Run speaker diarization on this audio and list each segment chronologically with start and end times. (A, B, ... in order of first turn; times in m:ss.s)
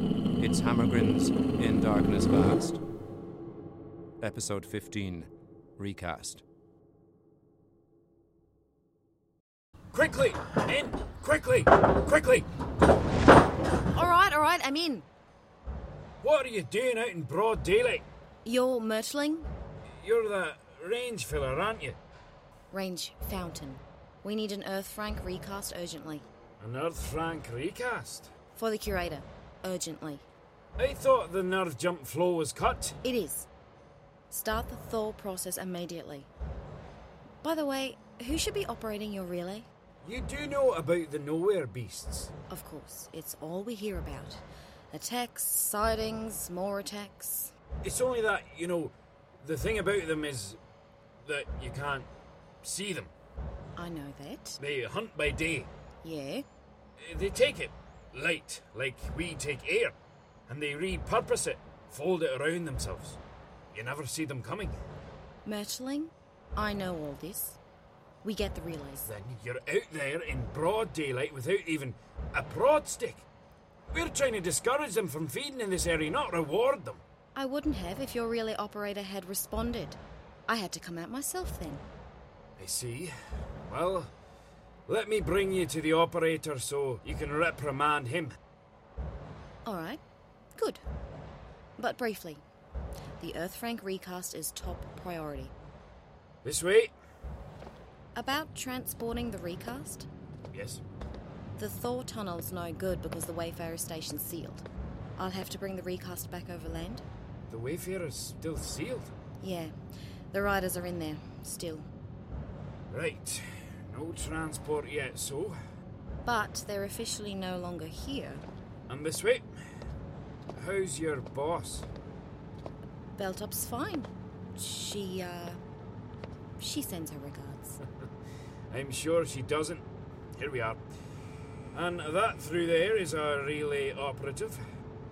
0:00.4-0:02.8 A
0:04.2-0:06.4 A
0:09.9-0:12.4 B
0:13.9-0:15.0 C
0:16.2-0:18.0 B
0:18.4-0:19.5 C
0:20.0-0:22.0 B
0:22.7-0:26.2 C
0:26.6-0:28.3 B
0:28.5-0:30.2 C
0:30.8-0:33.0 B
0:33.0-0:33.5 C
0:34.3-0:36.3 C
0:37.4-0:39.7 C
0:40.0-0:42.3 B
0:42.5-0:47.5 C
0:47.8-0:50.6 B
0:51.2-0:52.1 B
0:52.6-0:53.1 B
0:53.8-0:54.6 C
0:54.6-0:55.7 B
0:56.0-0:56.4 C
0:57.0-0:59.9 B
1:00.5-1:03.2 B
1:03.7-1:04.8 B
1:05.4-1:07.6 C
1:08.2-1:09.0 C
1:09.0-1:13.2 B
1:13.9-1:17.0 B
1:17.3-1:21.8 C
1:22.6-1:23.1 B
1:23.7-1:24.1 B
1:24.9-1:28.4 B
1:29.6-1:30.0 C
1:30.6-1:30.8 C
1:31.8-1:32.4 C
1:33.2-1:35.5 C
1:36.4-1:36.9 B
1:38.1-1:40.1 C
1:40.5-1:40.8 B
1:41.6-1:44.6 C
1:45.2-1:47.0 C
1:47.5-1:49.1 B
1:49.4-1:49.8 C
1:50.3-1:51.8 C
1:52.9-1:55.6 B
1:56.2-1:58.4 C
1:58.9-1:59.5 B
2:00.5-2:01.9 B
2:03.2-2:05.6 C
2:06.6-2:07.8 C
2:08.7-2:09.8 B
2:10.4-2:10.8 B
2:11.7-2:14.6 B